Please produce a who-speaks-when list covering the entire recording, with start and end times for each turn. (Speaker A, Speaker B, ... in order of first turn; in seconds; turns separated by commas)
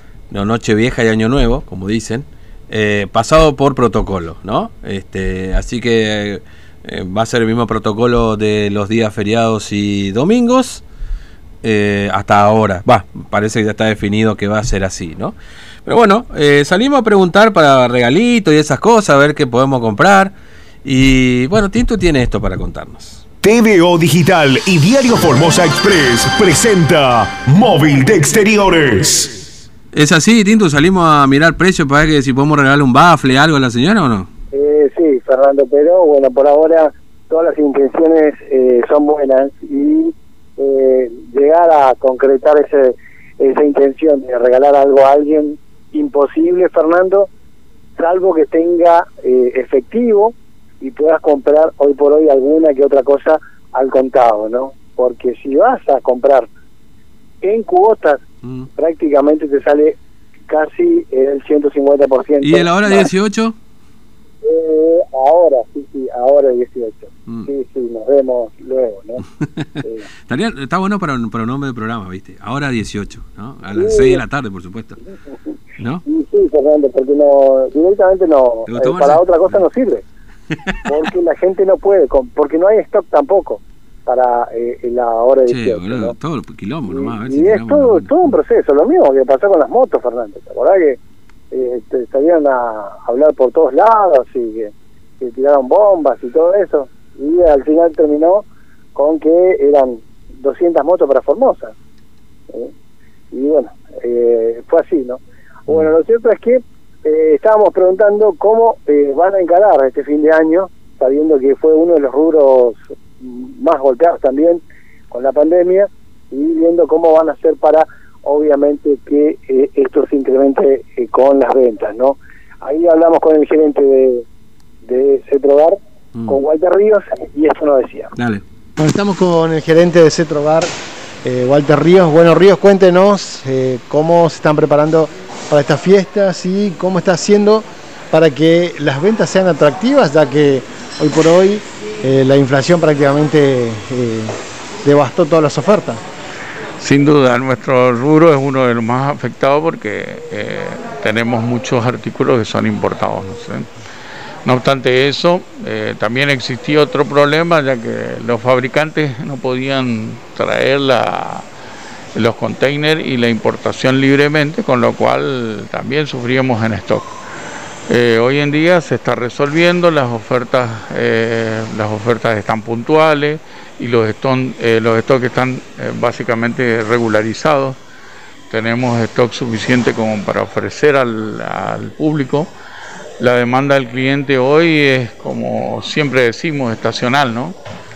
Speaker A: 0.3-10.8, Speaker A: 11.6-23.2, Speaker B: 23.4-29.4, Speaker A: 29.9-34.3, Speaker C: 34.5-47.3, Speaker C: 48.0-56.5, Speaker C: 57.4-58.2, Speaker C: 58.8-60.0, Speaker C: 60.5-63.1, Speaker A: 62.4-63.6, Speaker C: 64.4-69.2, Speaker A: 69.6-75.0, Speaker C: 73.8-74.2, Speaker A: 75.8-76.0, Speaker C: 76.0-80.0, Speaker A: 78.7-79.7, Speaker A: 80.5-81.1, Speaker C: 80.9-86.1, Speaker A: 85.5-88.3, Speaker C: 86.9-91.0, Speaker C: 91.5-101.7, Speaker C: 103.3-124.2, Speaker C: 124.8-125.8, Speaker C: 126.3-128.1, Speaker A: 128.2-128.4, Speaker D: 128.8-130.7, Speaker D: 131.2-146.0, Speaker E: 146.8-153.7, Speaker E: 154.4-161.5, Speaker E: 162.2-167.1, Speaker E: 167.9-177.8, Speaker E: 178.5-182.5, Speaker E: 183.2-187.6